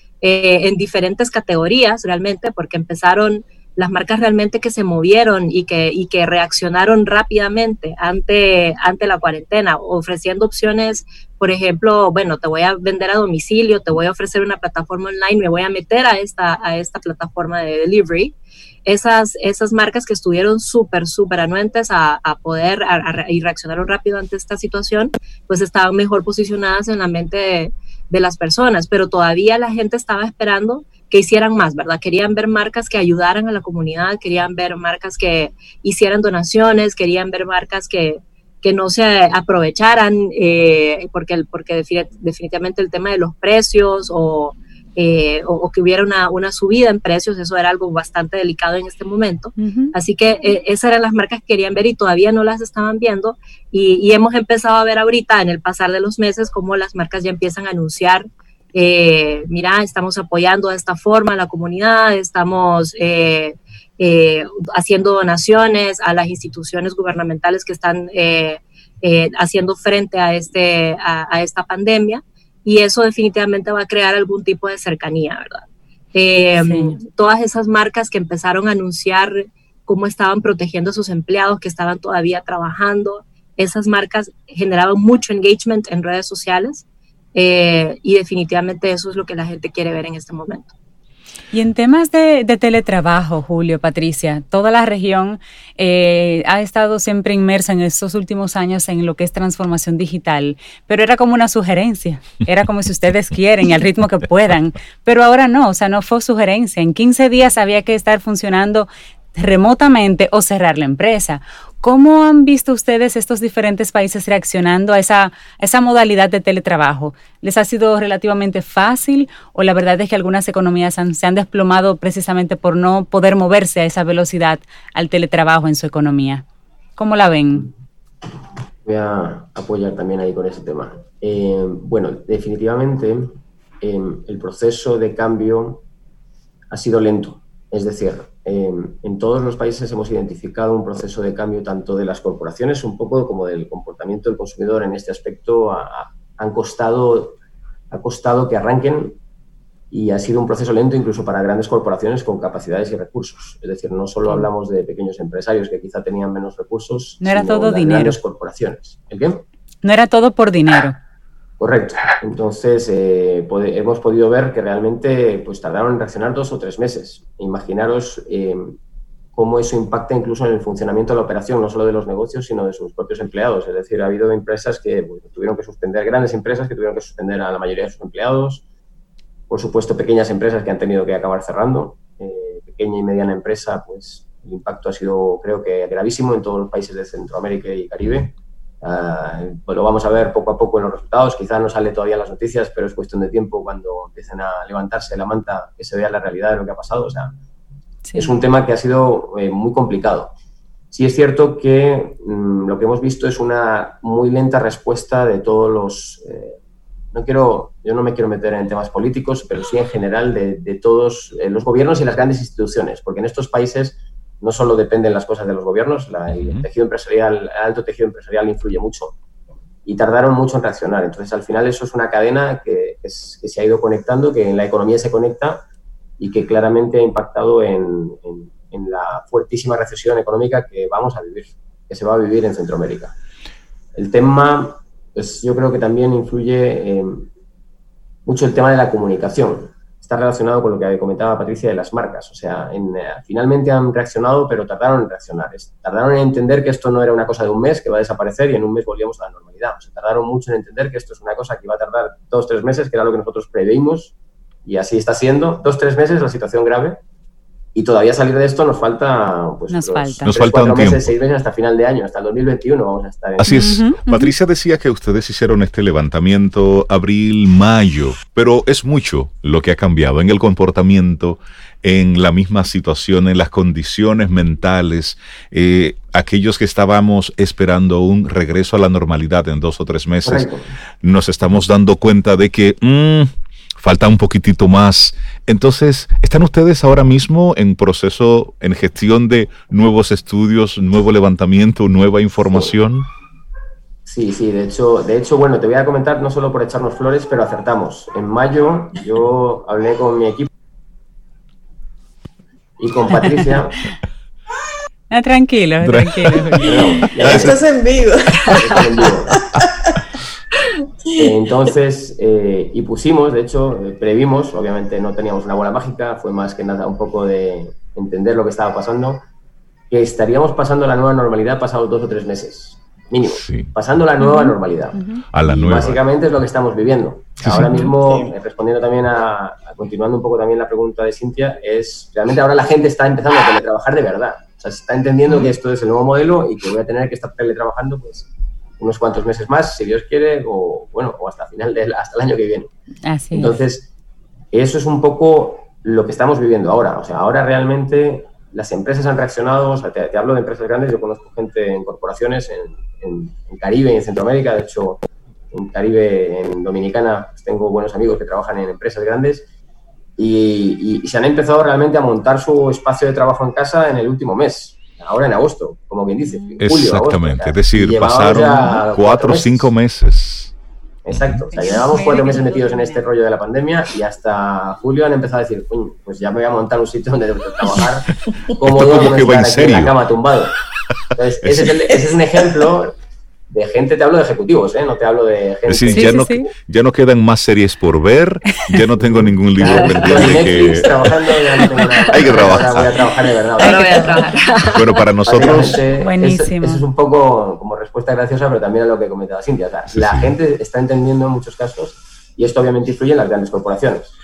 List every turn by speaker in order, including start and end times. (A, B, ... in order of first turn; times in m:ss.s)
0:00.2-1:30.7 A
0:49.6-0:49.9 B
1:16.6-1:17.0 B
1:31.5-2:06.4 B
2:07.0-2:07.7 B
2:08.8-2:15.8 C
2:16.7-2:27.4 C
2:27.9-2:29.2 C
2:29.9-2:39.4 C
2:37.2-2:38.2 B
2:39.8-2:41.0 B
2:41.6-2:48.8 C
2:49.3-2:58.6 C
2:59.5-3:17.4 C
3:18.1-3:18.4 B
3:18.1-3:20.3 C
3:20.9-3:26.6 C
3:27.1-3:39.2 C
3:36.3-3:36.7 D
3:39.8-3:45.6 C
3:46.2-3:53.2 C
3:54.0-3:57.3 C
3:58.3-4:17.0 C
4:17.8-4:23.7 C
4:19.7-4:20.4 B
4:20.2-4:21.1 D
4:23.4-4:40.5 D
4:23.5-4:24.3 B
4:40.2-4:40.7 C
4:41.0-4:53.1 D
4:54.1-5:00.5 C
5:02.8-5:03.9 C
5:05.1-5:06.8 B
5:05.8-5:07.6 D
5:06.6-5:07.6 C
5:06.6-5:09.8 E
5:08.5-5:09.4 C
5:11.2-5:19.2 C
5:19.9-5:38.3 C
5:23.2-5:23.7 D
5:24.2-5:25.2 B
5:25.3-5:26.0 D
5:27.4-5:27.7 D
5:27.5-5:27.9 B
5:28.0-5:28.3 E
5:38.8-5:42.7 C
5:43.1-5:43.6 B
5:43.3-5:43.9 C
5:44.5-5:59.5 C
6:00.2-6:09.7 C
6:06.3-6:06.6 B
6:06.6-6:10.5 D
6:11.0-6:20.6 C
6:11.1-6:11.5 D
6:11.5-6:13.0 B
6:18.6-6:20.0 D
6:21.2-6:23.0 C
6:21.9-6:22.6 E
6:23.5-6:26.2 C
6:25.7-6:31.1 D
6:25.9-6:26.5 B
6:29.1-6:34.2 C
6:29.6-6:35.1 A
6:32.1-6:32.9 D
6:33.6-6:34.4 B
6:34.6-6:35.8 D
6:35.2-6:44.2 C
6:35.9-6:36.8 B
6:39.9-6:40.4 D